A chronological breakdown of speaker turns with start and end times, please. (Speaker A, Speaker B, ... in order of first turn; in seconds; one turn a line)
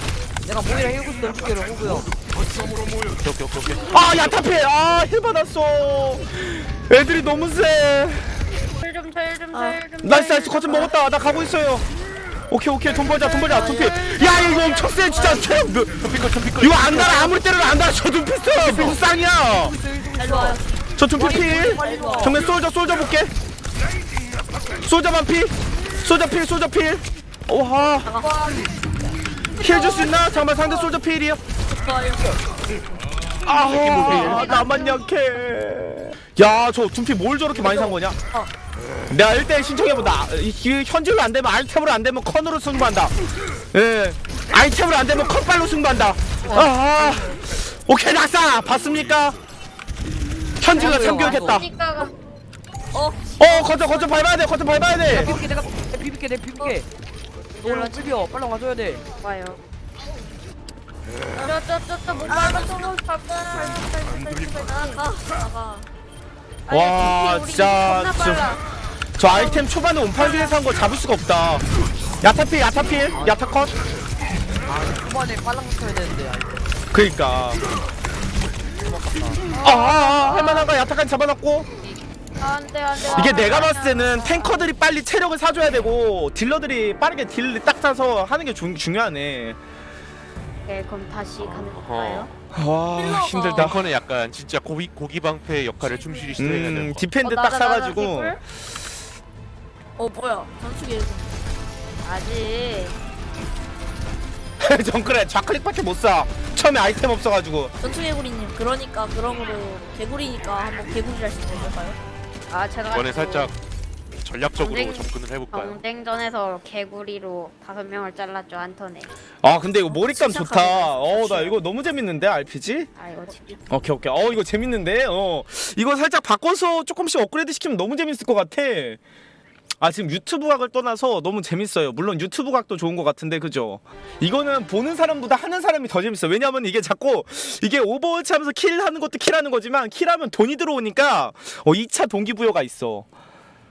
Speaker A: 0.4-2.1
Speaker B: 3.1-4.4
Speaker C: 3.9-8.4
Speaker D: 8.7-10.9
Speaker E: 9.5-9.8
Speaker C: 10.0-11.8
Speaker C: 12.5-16.0
Speaker D: 13.1-15.7
Speaker E: 15.1-15.4
Speaker B: 16.0-17.4
Speaker C: 16.6-19.8
Speaker A: 18.5-22.4
Speaker E: 20.2-22.4
Speaker C: 21.0-23.3
Speaker C: 24.8-28.1
Speaker E: 28.0-28.7
Speaker E: 29.6-30.9
Speaker C: 29.6-31.4
Speaker E: 31.7-32.4
Speaker C: 33.4-38.2
Speaker B: 33.6-34.5
Speaker D: 34.0-34.7
Speaker E: 34.1-34.8
Speaker E: 37.5-38.5
Speaker C: 39.1-49.4
Speaker C: 50.6-51.6
Speaker A: 50.7-51.6
Speaker D: 50.7-52.1
Speaker E: 52.9-54.3
Speaker C: 53.4-55.3
Speaker A: 55.0-56.9
Speaker D: 57.5-58.3
Speaker A: 57.6-59.0
Speaker D: 59.2-59.6
Speaker D: 61.4-65.1
Speaker E: 62.2-62.9
Speaker E: 64.6-65.9
Speaker D: 66.7-68.6
Speaker C: 66.7-68.5
Speaker C: 69.2-71.6
Speaker D: 69.3-69.6
Speaker D: 70.2-70.6
Speaker C: 72.2-73.7
Speaker A: 73.1-73.5
Speaker A: 74.6-76.7
Speaker C: 76.9-77.6
Speaker A: 78.8-79.4
Speaker D: 79.5-80.8
Speaker C: 79.6-81.7
Speaker D: 82.4-84.7
Speaker C: 83.0-89.6
Speaker A: 83.1-83.7
Speaker D: 90.6-92.3
Speaker B: 91.4-92.2
Speaker C: 92.5-93.8
Speaker E: 93.0-93.7
Speaker B: 93.5-97.1
Speaker C: 96.4-98.4
Speaker D: 97.2-98.4
Speaker E: 100.0-101.3
Speaker D: 102.0-103.0
Speaker C: 104.6-107.7
Speaker E: 107.8-112.0
Speaker D: 112.5-113.5
Speaker B: 112.9-113.5
Speaker B: 114.2-115.8
Speaker D: 114.5-119.1
Speaker C: 119.4-122.9
Speaker E: 119.9-121.6
Speaker D: 123.0-123.7
Speaker C: 123.7-129.0
Speaker C: 129.8-143.1